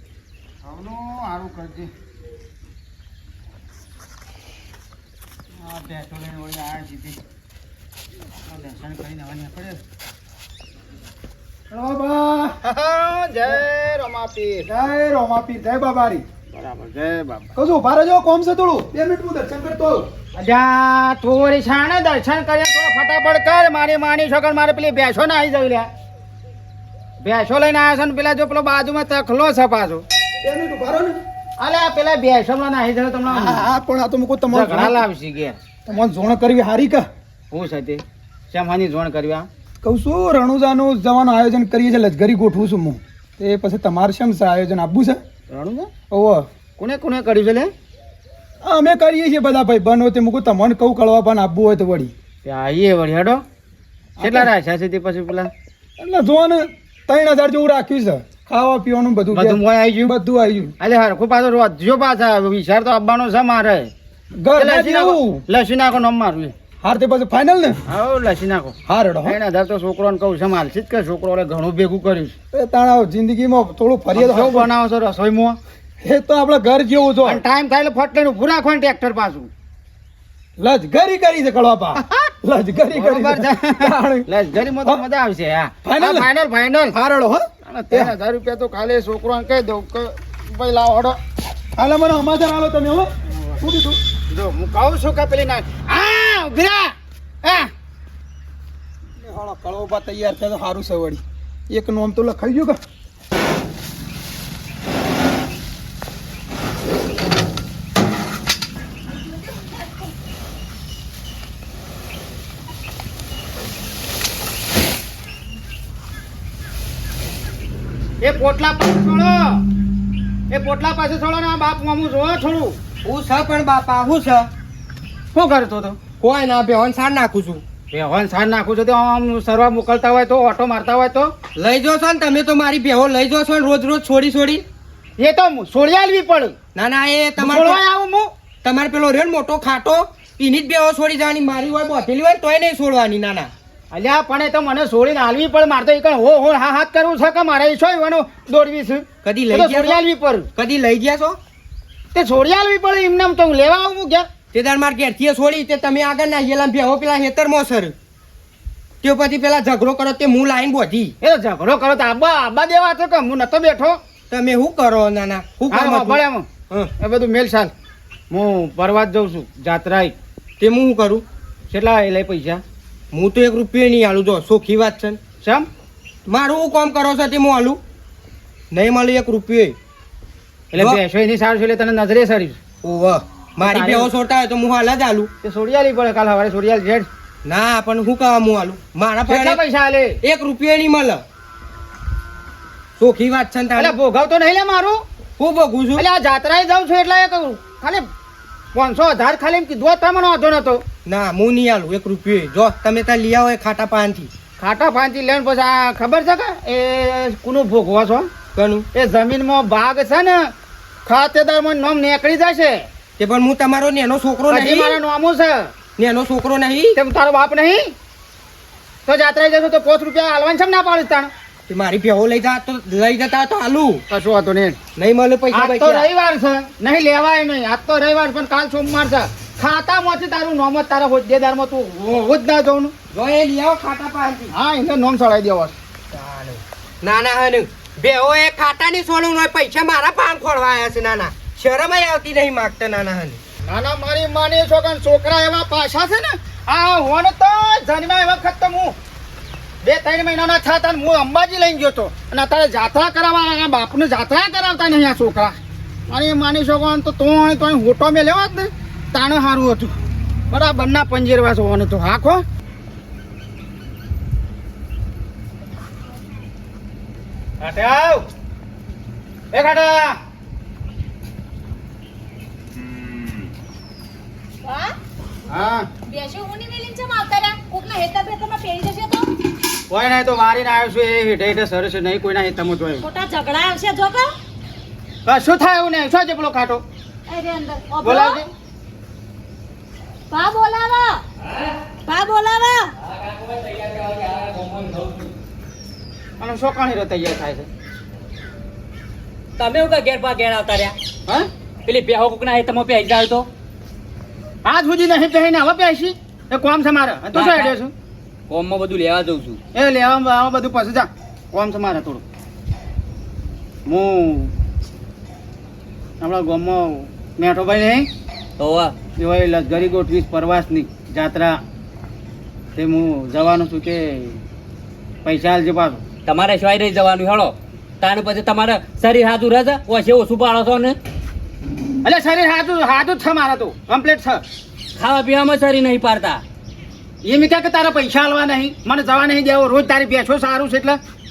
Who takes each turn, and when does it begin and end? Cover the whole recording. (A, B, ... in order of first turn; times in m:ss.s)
0:00.6-0:01.9 A
0:05.6-0:07.2 A
0:08.5-0:09.8 A
0:11.7-0:12.6 B
0:12.6-0:14.7 A
0:14.7-0:16.2 B
0:16.5-0:17.5 A
0:17.6-0:20.1 B
0:20.4-0:25.9 A
0:27.2-0:30.0 A
0:30.4-0:31.2 B
0:31.6-0:33.7 A
0:33.3-0:35.0 B
0:34.5-0:35.6 A
0:35.9-0:37.1 B
0:37.5-0:39.5 A
0:39.8-0:45.2 B
0:45.5-0:45.9 A
0:46.1-0:46.5 B
0:46.8-0:47.7 A
0:48.6-0:52.1 B
0:52.4-0:53.4 A
0:54.2-0:54.5 B
0:54.2-0:55.5 A
0:56.0-1:00.8 B
0:59.3-1:00.2 A
1:00.8-1:03.9 A
1:04.4-1:05.4 B
1:04.6-1:06.5 A
1:06.8-1:07.8 B
1:07.9-1:12.4 A
1:08.9-1:09.4 B
1:12.5-1:14.7 B
1:14.1-1:15.6 A
1:16.0-1:17.4 B
1:17.2-1:19.5 A
1:20.6-1:24.3 B
1:22.0-1:22.3 A
1:22.9-1:27.0 A
1:25.8-1:26.3 B
1:26.9-1:28.1 B
1:27.6-1:31.2 A
1:31.8-1:34.0 B
1:33.3-1:33.6 A
1:34.3-1:37.7 A
1:39.2-1:42.8 B
1:58.2-1:59.6 A
2:00.5-2:02.8 A
2:03.0-2:04.5 C
2:05.3-2:06.0 A
2:06.2-2:07.6 C
2:07.9-2:11.3 A
2:11.6-2:14.6 C
2:15.2-2:16.6 A
2:16.8-2:17.8 C
2:17.4-2:18.3 A
2:18.6-2:23.5 C
2:23.9-2:30.5 A
2:29.2-2:30.0 C
2:30.6-2:31.4 C
2:32.1-2:34.3 A
2:34.5-2:38.0 C
2:39.0-2:41.1 C
2:41.2-2:44.0 A
2:44.3-2:46.9 C
2:45.7-2:47.7 A
2:48.3-2:50.2 A
2:50.6-2:51.2 C
2:51.7-2:52.6 A
2:53.1-2:55.2 C
2:55.4-2:55.7 A
2:56.3-2:57.8 C
2:58.7-2:59.8 C
3:00.7-3:02.6 A
3:02.8-3:05.3 C
3:03.6-3:04.1 A
3:05.4-3:07.1 A
3:07.4-3:09.6 C
3:09.3-3:10.2 A
3:10.2-3:11.2 C
3:13.0-3:14.0 C
3:13.8-3:15.0 A
3:15.4-3:16.0 C
3:16.0-3:18.1 A
3:18.7-3:20.8 A
3:21.0-3:24.3 C
3:24.6-3:28.3 A
3:28.6-3:28.9 C
3:28.9-3:30.5 A
3:31.1-3:32.9 A
3:33.2-3:35.0 C
3:34.5-3:35.7 A
3:36.0-3:37.0 C
3:36.9-3:37.9 A
3:39.1-3:41.3 A
3:41.7-3:44.0 C
3:44.1-3:44.8 A
3:45.0-3:46.1 C
3:45.5-3:52.9 A
3:53.1-3:54.5 C
3:54.5-3:55.7 A
3:56.1-4:03.4 C
4:03.7-4:09.0 A
4:09.8-4:15.6 A
4:16.1-4:20.0 A
4:20.5-4:22.4 A
4:27.6-4:28.3 A
4:29.5-4:30.2 A
4:34.6-4:35.0 D
4:35.5-4:35.9 A
4:36.1-4:39.3 D
4:39.9-4:43.0 A
4:43.0-4:44.3 D
4:45.3-4:46.8 A
4:47.3-4:48.4 D
4:48.0-4:48.5 A
4:50.3-4:51.2 D
4:52.1-4:52.9 D
4:53.0-4:55.3 E
4:56.4-4:57.7 A
4:59.6-5:00.9 E
5:01.9-5:03.5 E
5:04.6-5:07.9 A
5:07.3-5:07.7 E
5:08.5-5:09.6 E
5:09.7-5:12.2 A
5:13.9-5:14.5 A
5:16.2-5:18.1 A
5:18.6-5:18.9 E
5:19.2-5:21.6 A
5:22.8-5:24.4 A
5:25.2-5:26.0 A
5:26.3-5:31.0 E
5:32.0-5:34.4 A
5:35.0-5:36.4 E
5:37.2-5:41.0 A